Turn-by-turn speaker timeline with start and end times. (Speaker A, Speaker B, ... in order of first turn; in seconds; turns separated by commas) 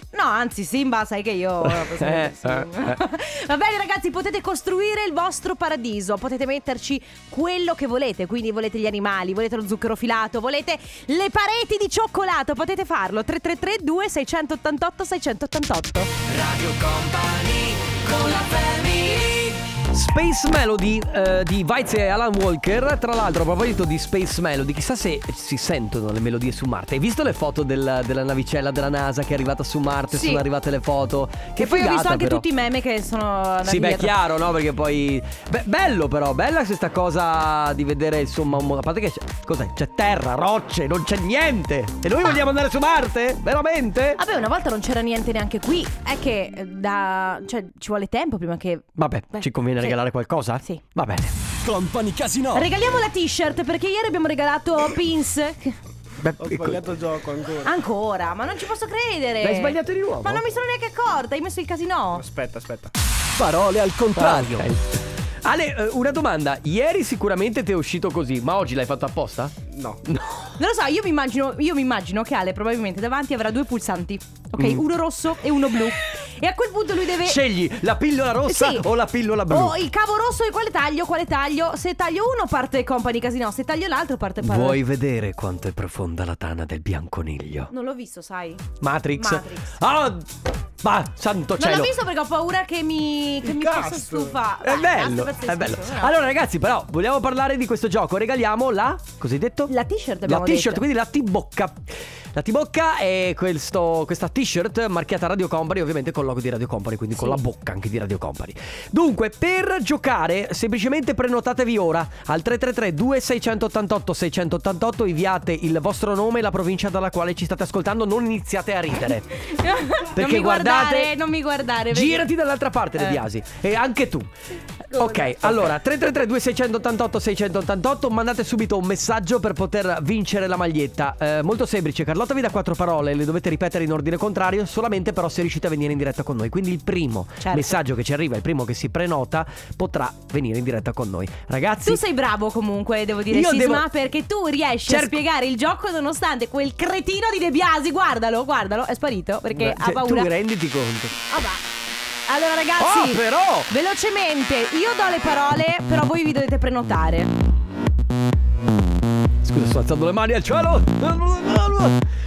Speaker A: 0.1-16.1, Speaker B: 1.6-3.0, Speaker B: 16.3-32.5, Speaker A: 30.1-30.4, Speaker A: 31.6-34.1, Speaker B: 33.6-44.2, Speaker A: 44.2-50.0, Speaker B: 49.0-51.3, Speaker C: 51.6-52.7, Speaker A: 52.5-55.8, Speaker B: 56.2-56.9, Speaker D: 56.4-57.8, Speaker A: 57.6-62.3, Speaker B: 59.4-60.4, Speaker D: 62.1-62.9, Speaker C: 63.4-64.7, Speaker B: 64.2-70.5, Speaker D: 69.7-70.0, Speaker A: 70.6-77.4, Speaker B: 74.6-74.8, Speaker B: 77.2-79.8, Speaker A: 78.5-78.9, Speaker A: 79.5-84.8, Speaker B: 84.4-87.7, Speaker A: 87.7-89.8, Speaker B: 88.8-91.9, Speaker A: 91.6-96.2, Speaker D: 93.5-94.3, Speaker B: 94.6-99.7, Speaker A: 99.7-100.8, Speaker B: 100.2-119.3, Speaker A: 119.4-122.3, Speaker B: 120.2-121.1, Speaker B: 121.9-124.3, Speaker A: 123.0-123.2, Speaker A: 124.9-125.7, Speaker B: 124.9-142.0, Speaker A: 137.4-137.8, Speaker A: 141.8-150.3, Speaker B: 143.3-143.8, Speaker B: 144.9-145.2, Speaker B: 149.5-151.2, Speaker A: 151.3-151.7, Speaker A: 152.3-157.3, Speaker B: 152.8-153.7, Speaker B: 159.4-162.0